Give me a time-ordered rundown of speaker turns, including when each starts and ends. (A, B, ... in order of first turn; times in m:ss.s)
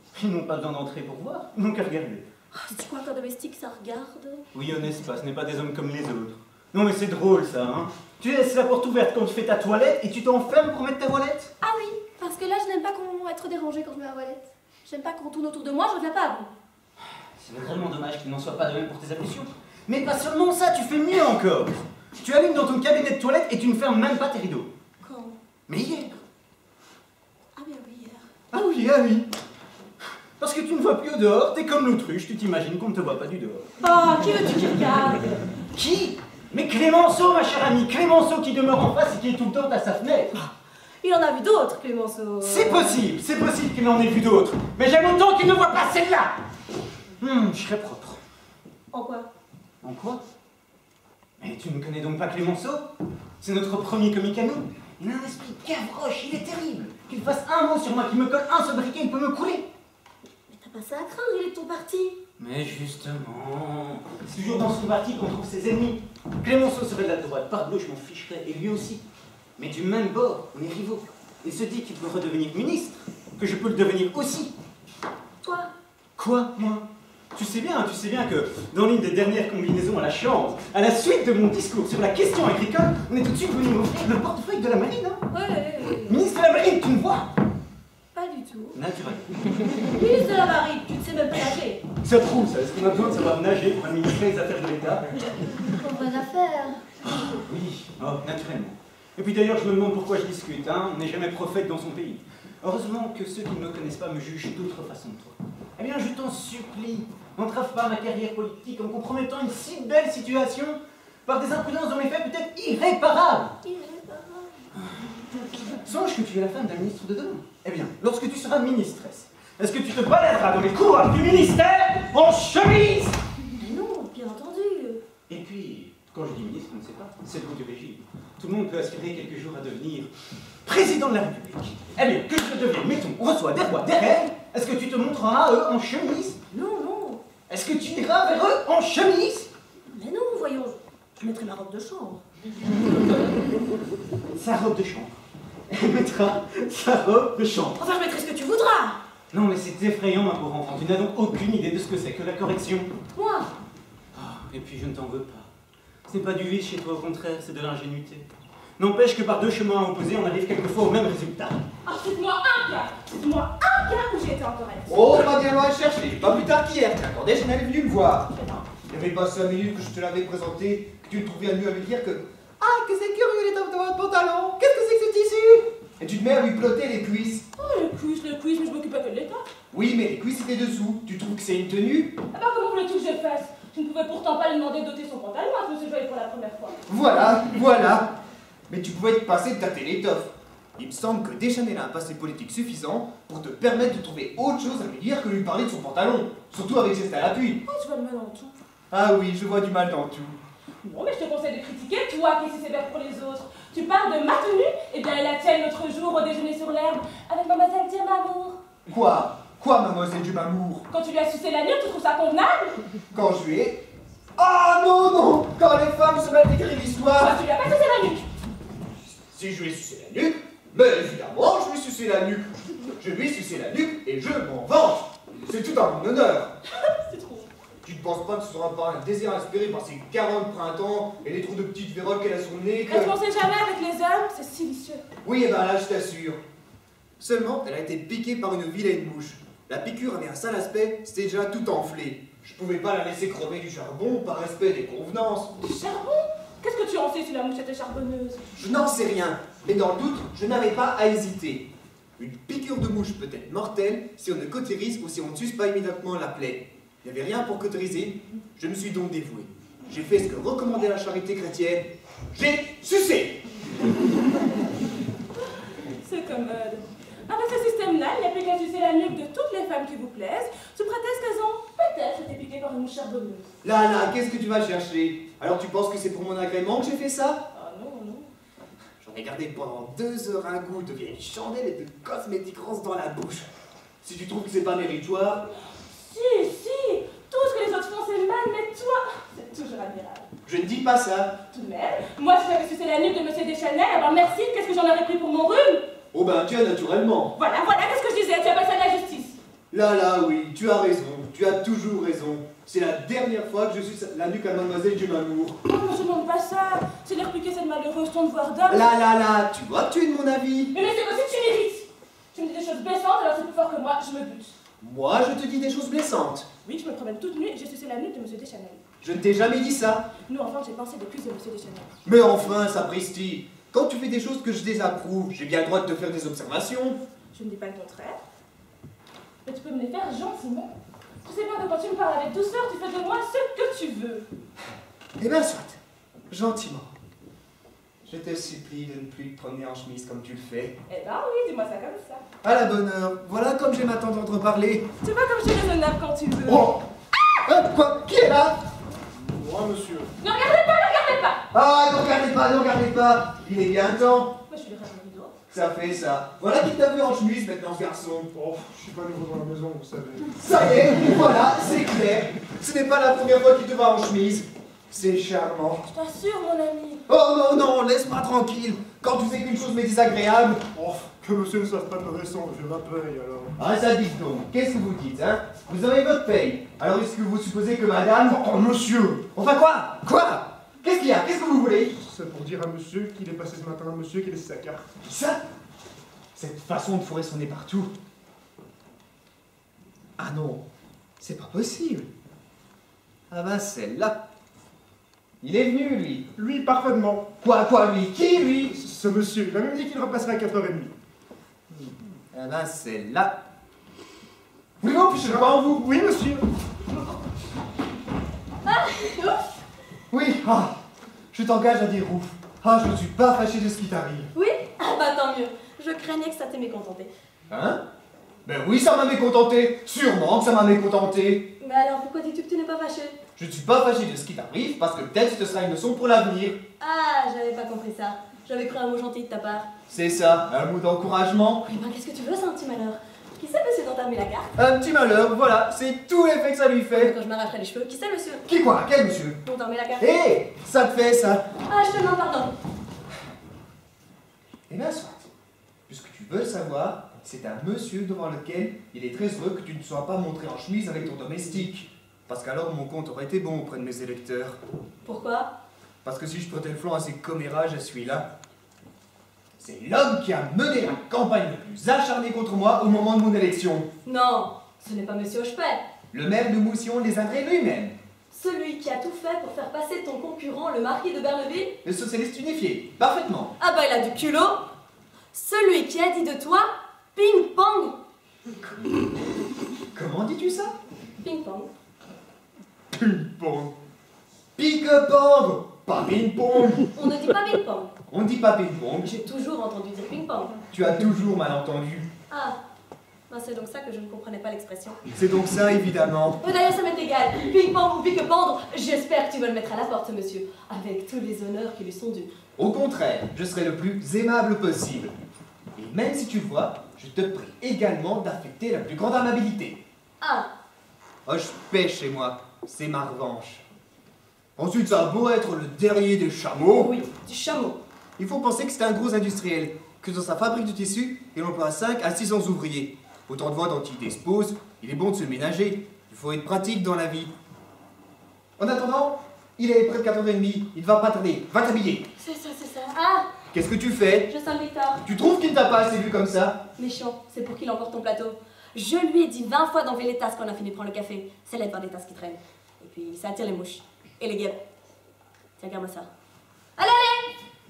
0:00.1-0:02.3 A
0:02.5-0:04.4 B
0:04.5-0:11.5 A
0:11.6-0:16.5 B
0:17.4-0:24.7 A
0:25.0-0:25.4 B
0:25.7-0:26.2 A
0:27.6-0:28.3 B
0:28.5-0:29.3 C
0:30.4-0:33.7 A
0:33.8-0:35.4 B
0:35.7-0:40.3 A
0:40.3-0:43.0 B
0:42.4-0:46.4 A
0:47.2-0:48.2 A
0:48.9-0:49.3 B
0:49.8-0:50.2 A
0:51.4-0:52.8 A
0:53.4-0:59.7 A
1:00.5-1:02.2 B
1:02.4-1:09.0 A
1:09.6-1:14.5 A
1:15.4-1:15.7 B
1:16.2-1:25.2 A
1:25.3-1:26.2 B
1:26.1-1:27.3 A
1:28.1-1:28.8 B
1:28.8-1:29.9 A
1:29.9-1:31.8 B
1:32.0-1:35.2 A
1:35.7-1:36.8 B
1:37.1-1:53.6 A
1:53.6-1:54.6 B
1:55.7-2:03.2 A
2:03.6-2:05.0 B
2:05.3-2:10.1 A
2:10.6-2:16.4 A
2:16.5-2:17.2 B
2:17.5-2:19.5 A
2:19.9-2:22.2 B
2:24.3-2:25.2 A
2:25.7-2:27.8 A
2:27.8-2:29.0 B
2:29.3-2:32.9 A
2:33.2-2:33.5 B
2:34.1-2:35.5 A
2:36.1-2:38.3 A
2:38.8-2:41.6 A
2:41.8-2:45.3 D
2:44.9-2:48.3 C
2:48.4-2:48.6 D
2:48.9-2:57.5 C
2:57.6-2:59.5 D
2:59.7-3:02.2 C
3:02.3-3:06.8 D
3:06.9-3:08.2 C
3:08.7-3:17.6 C
3:17.7-3:18.6 D
3:18.9-3:20.4 C
3:20.8-3:28.6 D
3:28.9-3:30.9 C
3:30.9-3:32.8 D
3:33.1-3:33.8 C
3:34.4-3:37.4 C
3:37.2-3:38.3 D
3:39.3-3:46.6 C
3:46.7-3:47.5 D
3:47.8-3:53.1 C
3:52.9-3:55.0 D
3:55.2-3:56.4 C
3:57.2-4:05.5 C
4:05.6-4:08.6 D
4:08.6-4:23.4 C
4:26.0-4:33.5 D
4:33.6-4:37.4 C
4:37.5-4:38.3 D
4:39.0-4:43.5 C
4:44.0-4:45.5 C
4:45.9-4:50.3 D
4:50.5-4:51.4 C
4:51.5-4:55.9 D
4:56.1-4:57.3 C
4:57.4-4:59.4 D
4:59.7-5:05.6 C
5:05.6-5:09.0 D
5:08.7-5:10.7 C
5:10.7-5:14.5 D
5:14.8-5:16.5 C
5:16.6-5:18.8 D
5:19.0-5:20.1 C
5:20.2-5:21.9 D
5:22.0-5:27.0 C
5:27.3-5:28.2 D
5:29.4-5:30.7 D
5:31.2-5:34.2 D
5:35.2-5:36.9 C
5:38.0-5:40.8 C
5:40.9-5:42.2 D
5:42.4-5:44.9 C
5:45.0-5:46.8 D
5:46.5-5:46.8 C
5:47.4-5:48.6 C
5:49.2-5:50.1 E
5:50.2-5:51.4 D
5:51.5-5:54.4 C
5:54.5-5:55.4 D
5:55.5-5:58.3 C
5:58.3-6:00.3 E
6:00.4-6:05.8 C
6:05.8-6:07.0 D
6:07.1-6:10.6 C
6:10.7-6:13.5 E
6:13.6-6:18.4 C
6:18.3-6:19.3 E
6:19.4-6:21.9 C
6:22.0-6:24.9 E
6:25.0-6:25.4 C
6:26.4-6:27.9 C
6:30.2-6:30.6 C
6:31.2-6:32.1 C
6:33.3-6:34.2 C
6:35.4-6:36.3 C
6:36.4-6:37.3 E
6:37.4-6:38.8 C
6:38.7-6:40.9 E
6:42.3-6:43.4 C
6:44.8-6:45.8 C
6:45.0-6:46.4 E
6:48.6-6:49.4 F
6:50.1-6:50.8 C
6:51.3-6:54.3 C
6:54.3-6:57.1 F
6:57.5-6:57.8 C
6:58.4-7:01.5 C
7:01.6-7:03.2 F
7:03.4-7:06.6 C
7:06.8-7:09.7 F
7:09.9-7:11.6 C
7:11.6-7:14.6 F
7:14.6-7:17.1 C
7:16.9-7:18.5 F
7:18.5-7:19.4 C
7:19.4-7:20.1 F
7:20.0-7:21.4 C
7:21.7-7:22.6 F
7:24.7-7:25.3 C
7:25.9-7:34.6 C
7:35.0-7:35.5 F
7:36.0-7:38.3 C
7:39.6-7:43.9 C
7:44.0-7:45.8 F
7:46.1-7:48.0 C
7:48.3-7:51.8 F
7:51.8-7:53.6 C
7:53.6-7:54.6 F
7:55.3-7:58.0 F
7:59.9-8:00.7 C
8:01.2-8:01.7 F
8:02.9-8:03.8 E
8:04.6-8:06.9 C
8:07.0-8:07.9 F
8:08.1-8:09.1 C
8:09.0-8:10.6 F
8:10.7-8:12.1 C
8:12.3-8:12.6 F
8:13.3-8:15.0 F
8:15.2-8:16.4 C
8:16.4-8:22.3 F
8:22.6-8:25.2 C
8:25.8-8:29.8 C
8:30.2-8:30.5 F
8:31.3-8:33.6 C
8:34.6-8:36.9 C
8:36.7-8:37.8 F
8:38.2-8:47.3 C
8:48.6-8:52.1 C
8:52.2-8:53.3 F
8:53.5-8:54.3 C
8:54.3-8:55.0 F
8:55.0-8:56.6 C
8:56.8-9:04.6 F
9:05.6-9:06.1 F
9:06.8-9:07.3 F